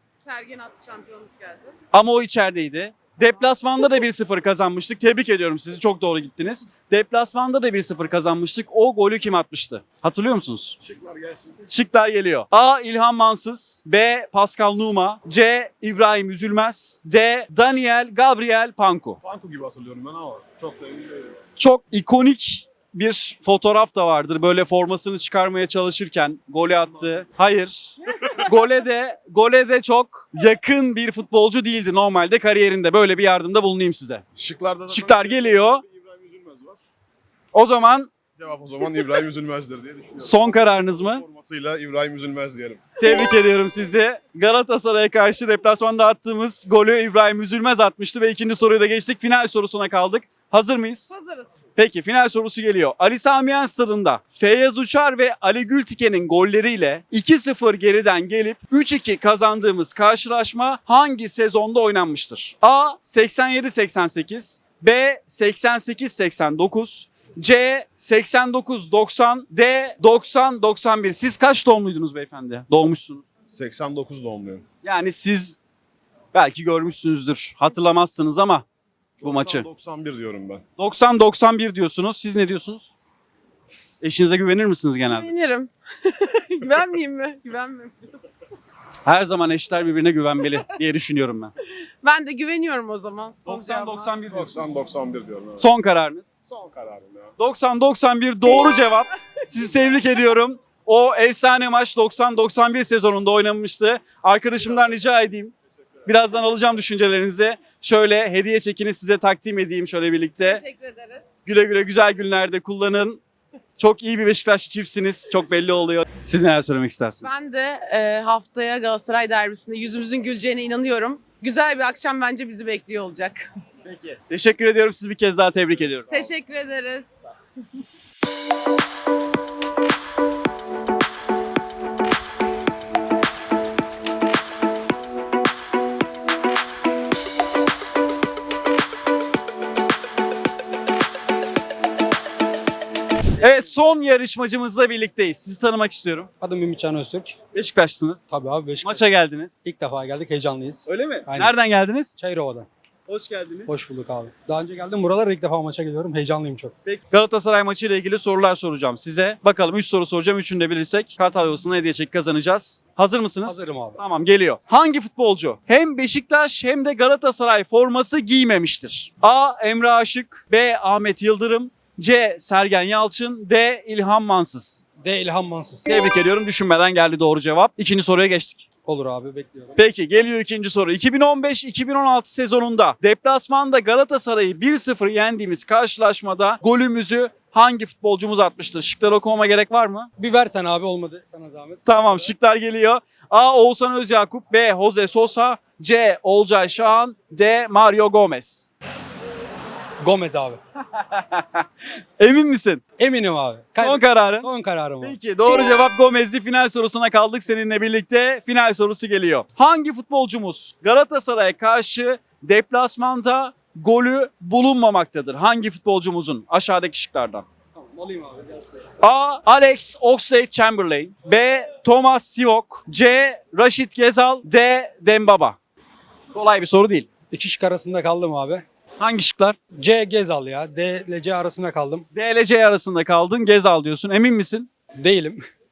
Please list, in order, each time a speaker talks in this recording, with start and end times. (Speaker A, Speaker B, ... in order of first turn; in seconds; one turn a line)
Speaker A: 0.2-1.8
Speaker B: 1.9-10.8
Speaker C: 10.8-11.5
Speaker B: 11.7-19.2
Speaker C: 19.2-21.3
Speaker B: 21.6-34.2
Speaker C: 34.4-36.8
Speaker B: 34.9-35.8
Speaker B: 37.5-38.1
Speaker C: 38.4-42.8
Speaker B: 40.2-41.2
Speaker B: 43.0-51.1
Speaker A: 51.1-51.7
Speaker B: 51.7-73.2
Speaker C: 73.5-74.6
Speaker B: 74.8-75.6
Speaker B: 76.3-78.6
Speaker B: 79.2-79.7
Speaker C: 79.2-80.6
Speaker B: 80.8-82.9
Speaker B: 84.0-85.3
Speaker A: 85.1-88.2
Speaker B: 89.0-91.5
Speaker A: 92.0-94.1
Speaker B: 93.5-94.7
Speaker C: 94.3-95.7
Speaker B: 95.6-96.4
Speaker C: 96.5-97.3
Speaker B: 97.4-105.5
Speaker B: 106.0-110.6
Speaker A: 110.4-111.2
Speaker B: 111.5-113.2
Speaker B: 113.8-117.4
Speaker A: 117.2-123.5
Speaker B: 123.8-126.2
Speaker A: 126.1-127.1
Speaker B: 143.4-146.3
Speaker D: 146.4-147.4
Speaker B: 147.5-148.3
Speaker D: 148.3-149.0
Speaker B: 148.8-149.6
Speaker D: 149.6-151.6
Speaker B: 150.8-152.2
Speaker D: 152.2-152.7
Speaker B: 153.1-153.8
Speaker D: 153.7-156.7
Speaker B: 156.8-174.8
Speaker D: 163.4-164.0
Speaker D: 175.0-175.9
Speaker B: 175.9-178.6
Speaker D: 178.8-179.8
Speaker B: 179.8-190.1
Speaker D: 190.2-191.8
Speaker B: 191.9-198.7
Speaker D: 200.0-200.6
Speaker B: 201.0-201.6
Speaker B: 202.2-202.8
Speaker D: 203.0-205.2
Speaker B: 203.8-204.5
Speaker B: 205.0-217.4
Speaker D: 217.8-218.8
Speaker B: 219.0-225.6
Speaker B: 226.3-227.1
Speaker D: 227.3-228.6
Speaker B: 229.0-229.6
Speaker D: 229.7-232.1
Speaker B: 232.1-234.7
Speaker D: 235.0-235.4